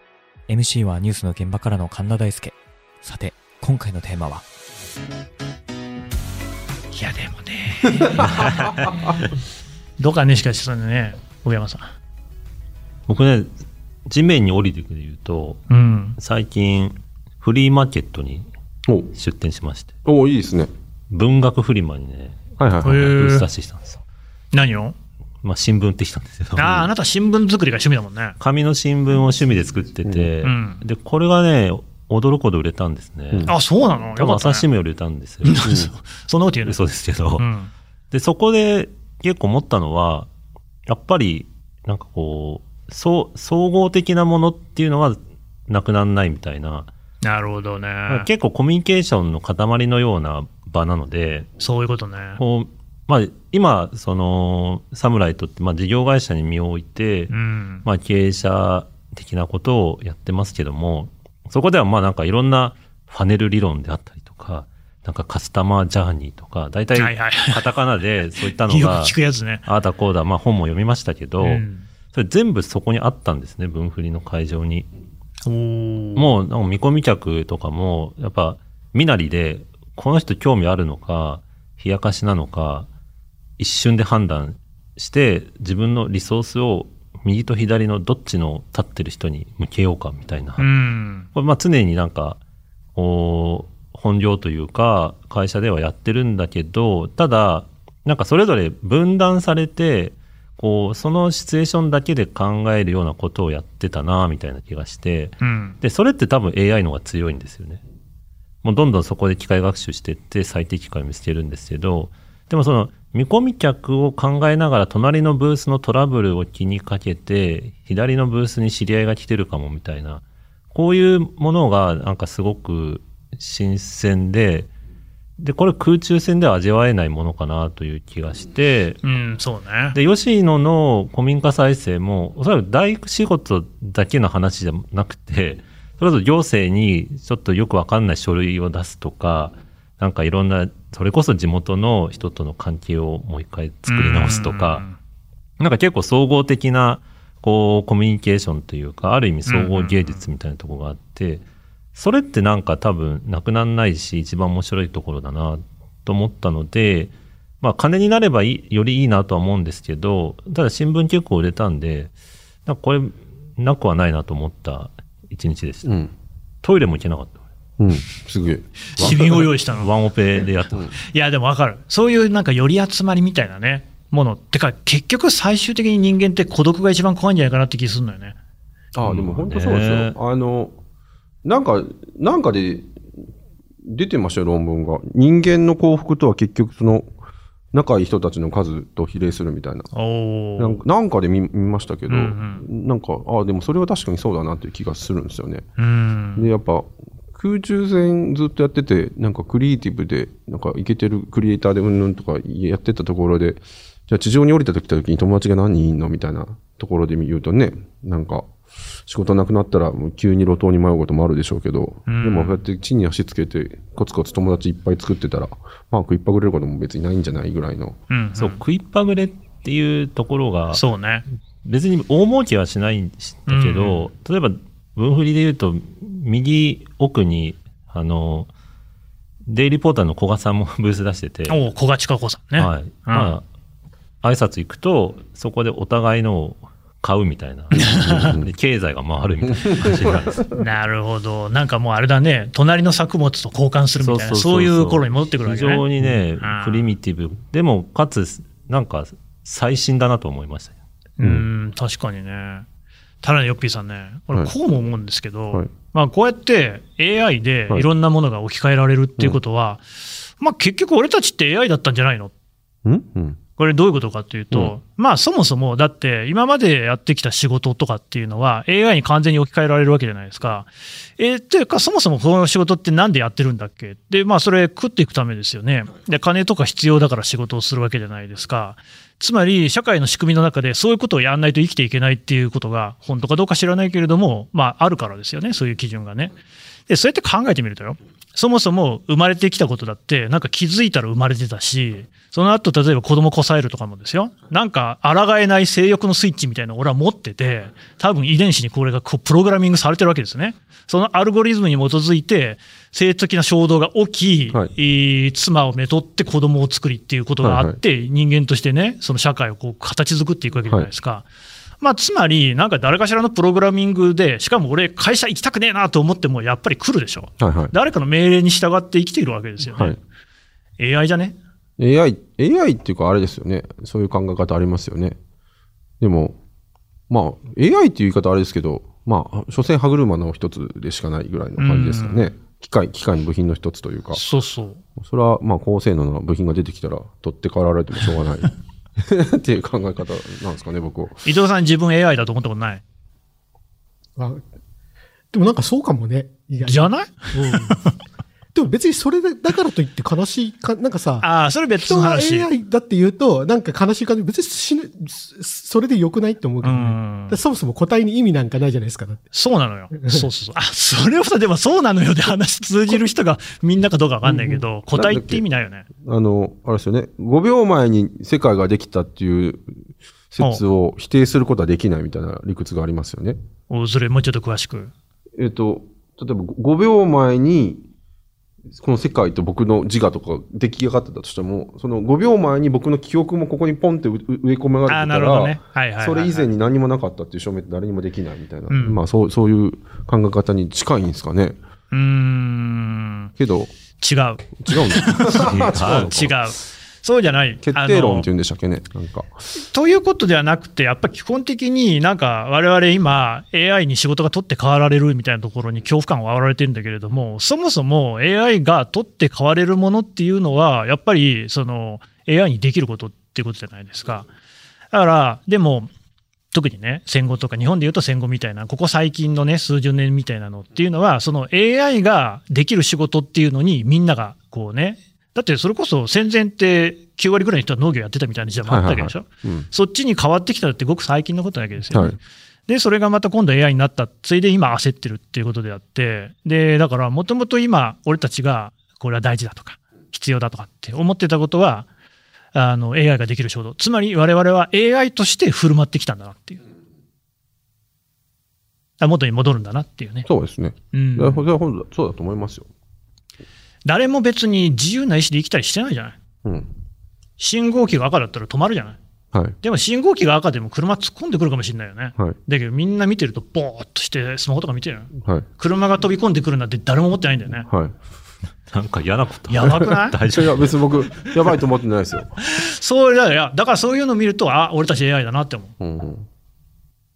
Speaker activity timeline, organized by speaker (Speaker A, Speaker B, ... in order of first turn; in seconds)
Speaker A: 0.5-4.5
Speaker B: 6.9-8.9, 10.0-11.9, 15.7-16.2, 22.8-23.5, 24.5-25.0, 26.6-28.4, 30.4-30.8, 33.5-34.6, 35.4-36.8, 37.4-37.7, 47.2-48.3, 51.6-52.4, 57.3-57.8, 66.9-67.7, 68.7-69.6, 71.4-71.8, 75.4-76.3, 90.6-91.3, 105.4-105.8, 129.0-129.9, 143.9-145.0, 149.5-150.2, 169.0-169.9, 171.0-178.3, 189.9-190.8, 192.1-192.6, 195.8-196.5, 212.1-212.6, 218.1-218.6, 220.7-221.2, 223.5-224.1, 231.5-233.4, 237.9-238.3, 240.6-245.8, 246.4-246.8, 251.2-252.7, 253.2-259.8, 260.4-262.3, 263.6-286.3, 286.9-311.2, 311.8-320.0, 320.8-321.4, 331.6-332.3, 334.1-334.8, 341.2-342.8, 346.6-347.9, 351.2-352.5, 356.6-357.4, 359.3-365.9, 373.7-374.9, 384.9-386.5, 388.7-389.0, 391.9-393.3, 394.0-398.3, 399.6-414.3, 414.9-415.9, 416.5-432.2, 432.7-441.9, 442.5-446.6, 449.0-450.3, 450.9-451.4, 453.8-456.2, 457.4-459.0, 459.6-467.7, 469.5-470.2, 472.4-475.7
Speaker C: 8.2-8.9, 13.1-13.5, 14.1-15.6, 16.2-18.5, 19.1-19.9, 21.1-24.0, 25.4-26.9, 28.4-33.5, 34.2-35.6, 36.6-37.5, 38.1-40.3, 40.9-46.9, 48.1-51.5, 52.4-57.3, 57.8-74.9, 76.2-82.9, 83.6-90.7, 91.3-92.4, 93.0-107.8, 108.6-124.7, 125.4-129.0, 129.9-144.8, 145.6-162.1, 162.7-165.9, 166.6-167.4, 169.7-170.8, 179.0-180.1, 218.3-220.8, 221.6-228.5, 229.5-231.6, 232.6-233.4, 234.2-240.4, 244.0-250.8, 395.3-396.1, 468.7-470.9
Speaker D: 8.4-9.2, 18.9-19.1, 20.0-20.7, 22.6-22.9, 35.7-35.9, 165.8-166.1, 167.8-169.4, 178.9-180.8, 181.4-182.9, 183.8-187.1, 187.7-189.9, 190.6-195.7, 196.3-208.5, 209.1-218.0, 237.8-238.4, 239.5-240.4, 251.2-251.4, 262.8-263.4, 307.4-307.8, 317.4-317.7, 319.7-320.0, 321.8-325.2, 326.0-326.4, 327.1-334.2, 335.0-341.2, 364.2-365.4, 366.0-369.7, 370.3-373.4, 375.4-377.8, 378.8-391.6, 393.4-393.7, 394.6-396.4, 397.6-399.3, 428.6-429.7, 431.9-432.2, 450.2-452.7, 456.4-456.7, 465.2-465.4, 467.7-468.0, 470.3-472.4, 475.8-476.3
Speaker E: 345.3-347.8, 348.5-351.3, 351.8-359.2, 359.9-360.3